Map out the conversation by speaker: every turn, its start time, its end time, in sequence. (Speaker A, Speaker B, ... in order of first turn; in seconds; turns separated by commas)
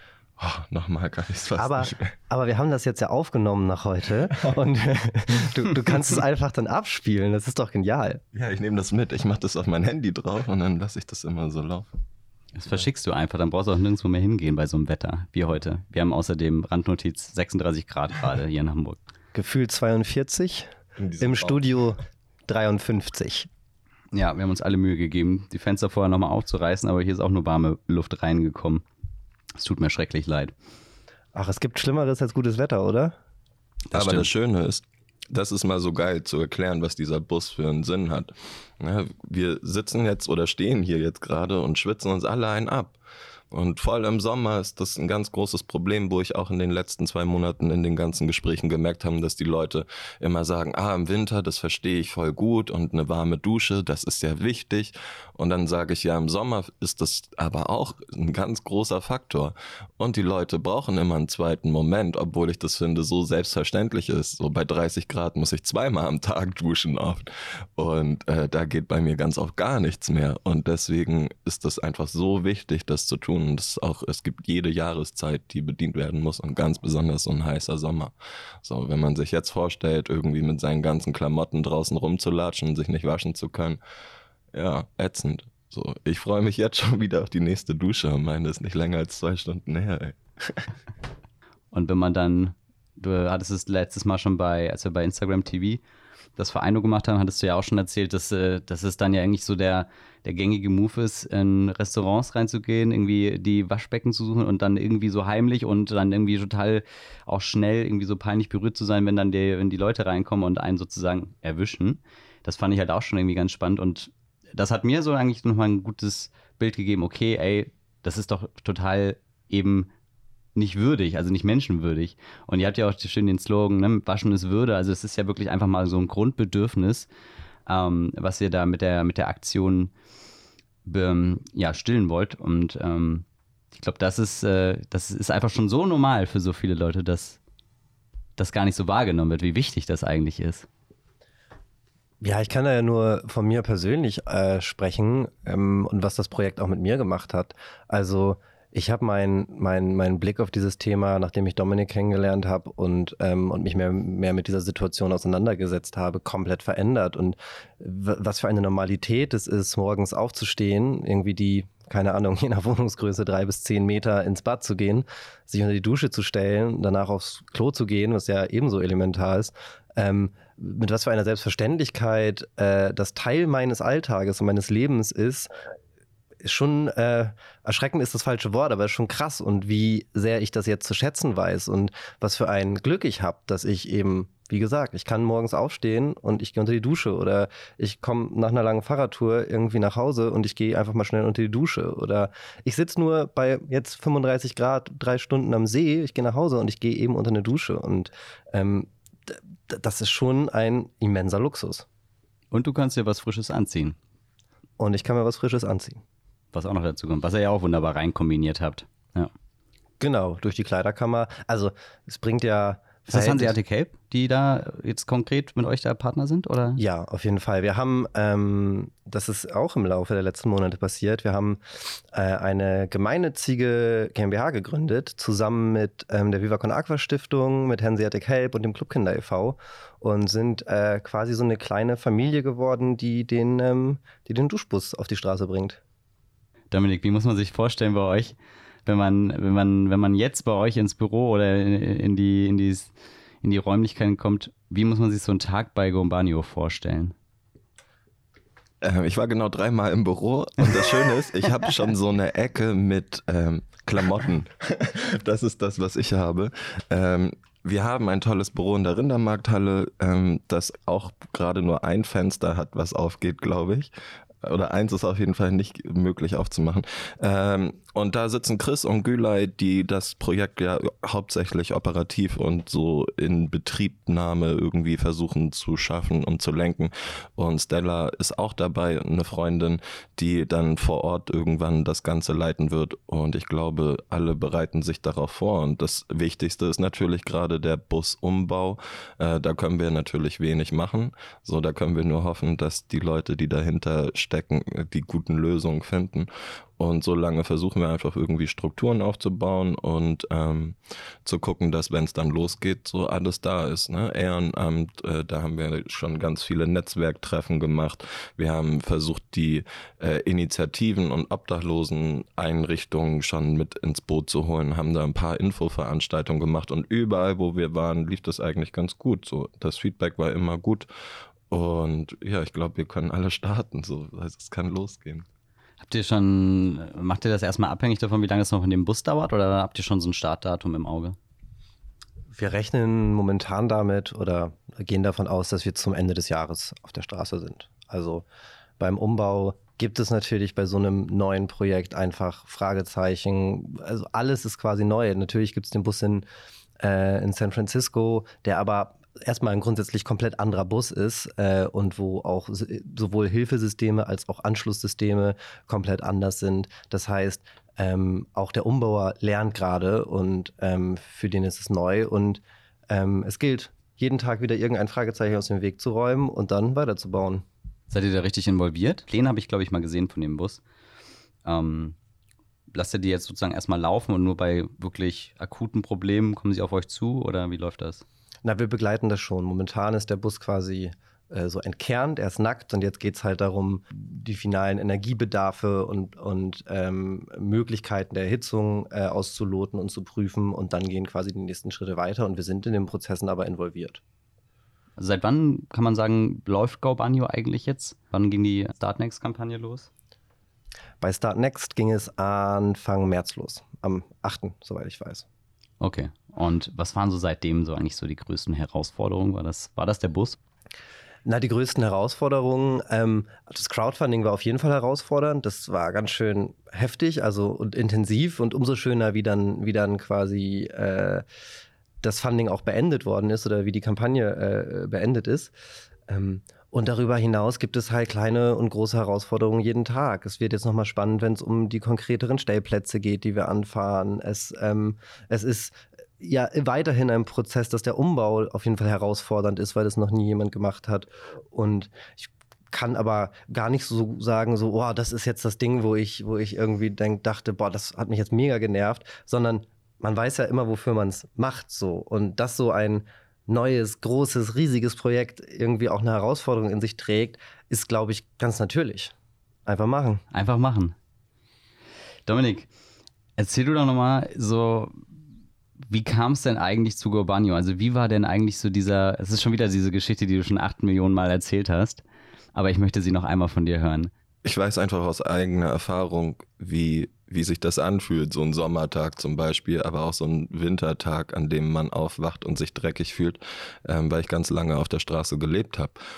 Speaker A: 0.4-2.1, Speaker B: 1.6-8.2, Speaker A: 8.3-11.9, Speaker C: 12.5-19.0, Speaker B: 19.3-23.5, Speaker A: 21.0-21.6, Speaker C: 24.1-28.8, Speaker C: 29.6-30.5, Speaker B: 31.3-33.1, Speaker C: 33.9-34.3, Speaker A: 33.9-43.0, Speaker A: 43.5-83.8, Speaker A: 84.5-90.7, Speaker C: 91.7-95.8, Speaker C: 96.4-119.9, Speaker C: 120.5-127.1, Speaker C: 127.7-129.9, Speaker C: 130.8-137.4, Speaker C: 138.4-140.7, Speaker B: 142.2-175.5, Speaker B: 176.4-201.8, Speaker C: 202.5-204.0, Speaker B: 204.8-206.0, Speaker C: 206.5-209.3, Speaker B: 210.0-213.5, Speaker C: 213.1-216.8, Speaker B: 216.8-235.8, Speaker C: 236.7-238.3, Speaker C: 238.8-247.1, Speaker A: 248.8-263.9, Speaker A: 264.4-320.9, Speaker A: 321.5-325.2, Speaker C: 325.8-331.1, Speaker B: 332.3-338.2, Speaker B: 338.8-346.2, Speaker B: 346.8-367.4, Speaker C: 367.9-370.6, Speaker C: 371.4-371.9, Speaker C: 372.7-378.0, Speaker B: 378.4-394.0, Speaker C: 395.0-399.9, Speaker B: 401.0-405.2, Speaker C: 405.8-410.4, Speaker B: 411.2-421.2, Speaker B: 422.0-425.5, Speaker B: 426.1-459.1, Speaker B: 459.6-460.2, Speaker C: 460.3-460.9, Speaker C: 462.2-462.7, Speaker C: 463.4-465.0, Speaker C: 465.8-472.0, Speaker C: 472.5-474.1, Speaker A: 474.4-486.0